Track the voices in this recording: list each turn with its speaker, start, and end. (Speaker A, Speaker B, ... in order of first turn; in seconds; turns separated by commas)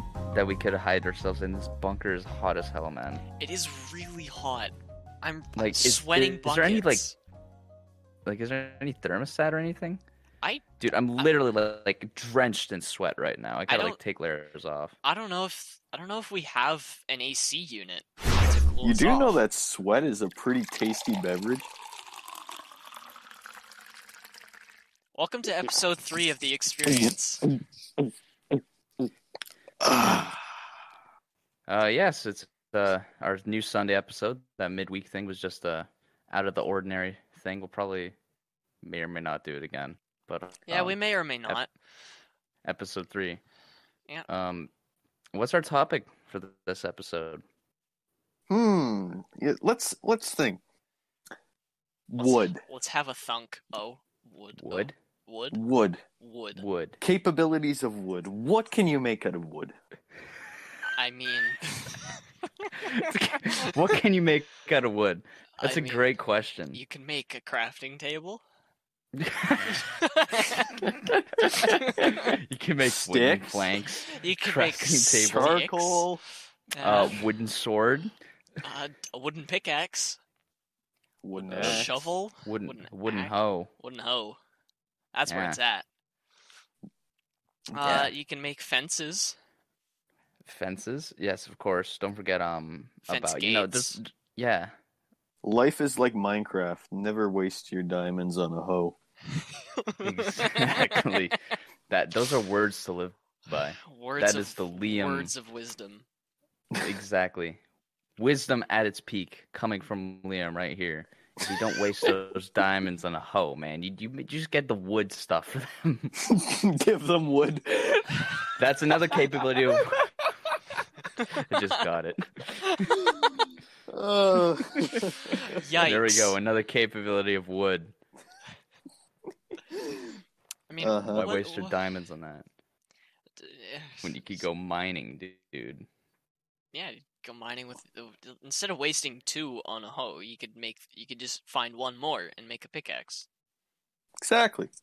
Speaker A: 0.3-3.2, Speaker B: 3.4-7.2, Speaker A: 5.6-7.0, Speaker A: 8.2-10.0, Speaker A: 10.8-14.9, Speaker B: 13.7-14.0, Speaker B: 15.0-19.4, Speaker C: 18.8-21.7, Speaker B: 25.1-27.5, Speaker C: 29.8-30.4, Speaker A: 31.7-38.1, Speaker A: 38.8-41.6, Speaker B: 40.7-41.7, Speaker A: 42.6-43.4, Speaker A: 44.3-44.7, Speaker A: 45.3-47.4, Speaker C: 48.5-50.6, Speaker C: 52.1-52.6, Speaker B: 52.2-55.6, Speaker A: 54.6-54.9, Speaker C: 55.5-56.0, Speaker B: 56.2-56.6, Speaker A: 56.6-57.0, Speaker C: 57.0-59.8, Speaker B: 61.0-62.1, Speaker A: 62.8-66.8, Speaker B: 65.6-66.0, Speaker B: 66.7-68.4, Speaker A: 69.1-69.9, Speaker B: 69.8-70.9, Speaker A: 71.2-75.6, Speaker B: 71.5-72.3, Speaker C: 73.0-73.8, Speaker B: 74.1-76.1, Speaker C: 75.2-76.2, Speaker B: 76.7-77.2, Speaker A: 76.8-78.1, Speaker B: 78.6-80.2, Speaker C: 81.2-81.9, Speaker A: 81.4-81.9, Speaker B: 81.6-84.4, Speaker A: 82.5-83.7, Speaker B: 85.1-85.9, Speaker A: 85.3-85.6, Speaker B: 87.7-89.4, Speaker A: 87.8-88.1, Speaker A: 90.5-94.7, Speaker B: 93.1-94.0, Speaker C: 95.4-99.0, Speaker B: 99.4-101.3, Speaker A: 100.0-101.4, Speaker A: 101.9-105.3, Speaker B: 103.8-106.1, Speaker A: 106.8-107.6, Speaker A: 108.2-116.2, Speaker C: 116.2-118.3, Speaker A: 118.6-120.1, Speaker B: 121.2-121.6, Speaker A: 121.3-123.1, Speaker B: 122.7-123.0, Speaker C: 123.9-125.4, Speaker B: 125.2-126.3, Speaker A: 125.8-128.0, Speaker C: 129.7-130.1, Speaker B: 130.7-131.8, Speaker C: 130.8-131.3, Speaker A: 131.1-132.5, Speaker B: 133.4-134.4, Speaker A: 134.0-135.9, Speaker B: 136.7-143.3, Speaker C: 144.2-144.7